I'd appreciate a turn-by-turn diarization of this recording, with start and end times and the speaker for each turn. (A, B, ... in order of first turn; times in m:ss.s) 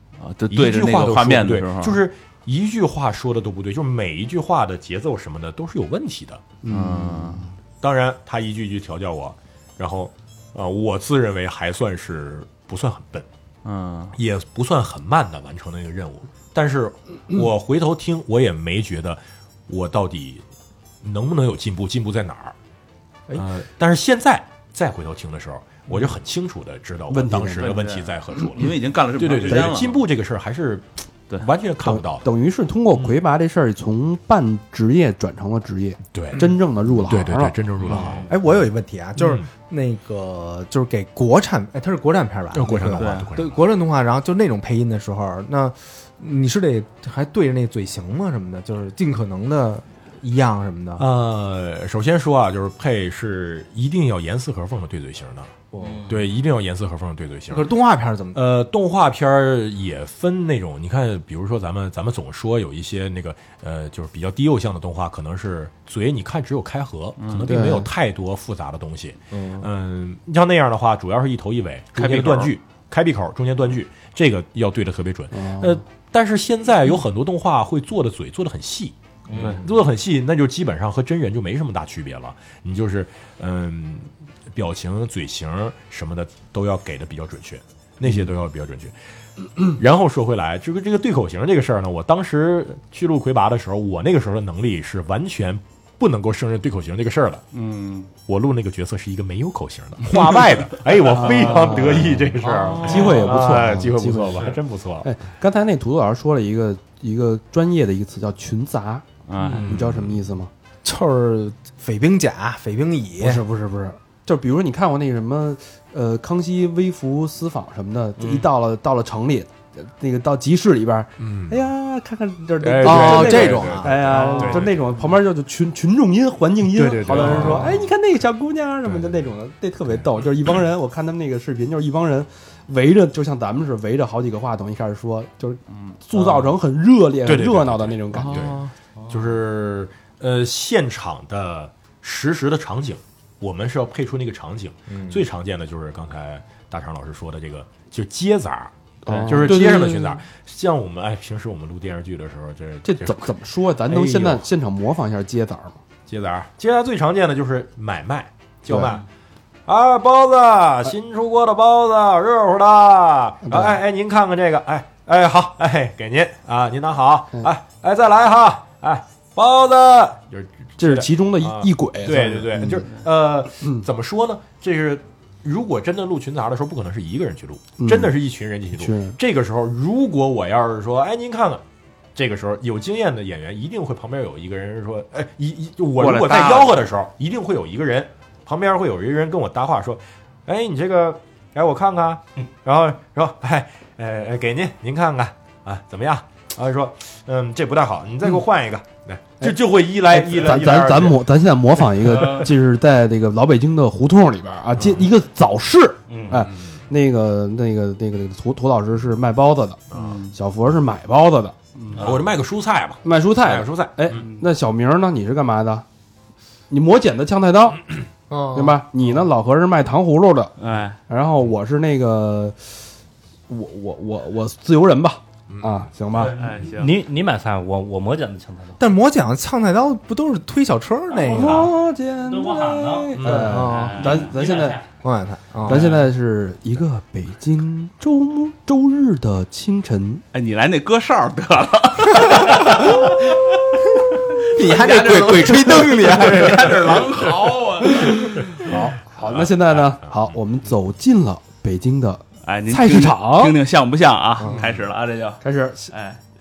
0:00.2-0:02.0 A
0:00.5-0:06.4 B
0:06.6-0:07.5 C
0:06.7-0:07.5 A
0:07.8-0:13.3 B
0:13.6-0:14.2 A
0:14.2-0:20.4 B
0:21.0-0:22.6 B
0:23.3-0:32.3 B
0:27.1-0:27.8 C
0:27.6-0:30.0 A
0:31.8-0:38.2 C
0:36.1-0:38.6 B
0:37.9-0:38.3 D
0:38.2-0:51.0 E
0:39.2-0:39.5 B
0:42.5-0:43.6 B
0:43.0-0:43.3 A
0:51.0-0:55.5 B
0:55.7-0:56.1 E
0:55.8-0:56.1 D
0:56.1-0:57.7 B
0:57.5-0:58.4 E
0:58.3-1:29.0 B
1:07.2-1:07.6 A
1:07.5-1:07.9 C
1:12.0-1:12.5 A
1:15.3-1:15.8 C
1:19.3-1:19.6 D
1:29.7-1:37.4 B
1:37.5-1:38.1 A
1:38.3-1:45.1 B
1:41.1-1:49.1 C
1:42.5-1:43.1 A
1:49.3-1:49.8 A
1:49.4-1:50.1 B
1:49.6-1:50.5 C
1:50.8-1:53.4 E
1:53.2-2:18.5 C
2:01.2-2:01.6 B
2:02.6-2:04.8 B
2:02.8-2:04.2 E
2:06.7-2:07.9 B
2:16.1-2:16.5 B
2:17.2-2:33.3 B
2:24.9-2:25.2 E
2:29.0-2:30.2 C
2:32.8-2:35.8 C
2:33.9-2:34.4 B
2:36.1-2:39.0 B
2:38.7-2:39.0 C
2:39.7-3:01.6 B
2:43.4-2:43.8 C
2:50.8-2:52.9 C
2:57.8-2:58.1 C
2:58.8-2:59.2 C
3:02.2-3:21.2 B
3:06.0-3:06.7 A
3:20.1-3:29.8 C
3:22.2-3:22.4 B
3:24.8-3:25.0 B
3:26.1-3:26.5 D
3:29.9-3:30.2 B
3:30.1-3:30.3 A
3:30.3-3:31.6 C
3:32.0-3:34.2 B
3:33.0-3:35.8 C
3:36.7-3:37.8 C
3:38.3-3:38.8 E
3:38.5-3:40.5 C
3:40.6-3:41.0 A
3:41.1-3:42.8 C
3:43.5-3:46.4 C
3:45.5-3:45.8 B
3:46.2-3:48.8 D
3:46.2-3:47.0 A
3:48.8-3:51.7 E
3:51.2-3:54.8 C
3:51.2-3:51.7 D
3:52.3-3:54.8 D
3:53.2-3:53.5 B
3:53.2-3:54.4 E
3:55.0-3:56.0 E
3:55.7-4:00.2 C
4:00.3-4:03.6 A
4:04.3-4:08.7 A
4:04.4-4:07.0 E
4:08.1-4:13.6 C
4:08.8-4:10.4 B
4:12.4-4:16.2 A
4:14.5-4:14.8 B
4:15.4-4:15.9 C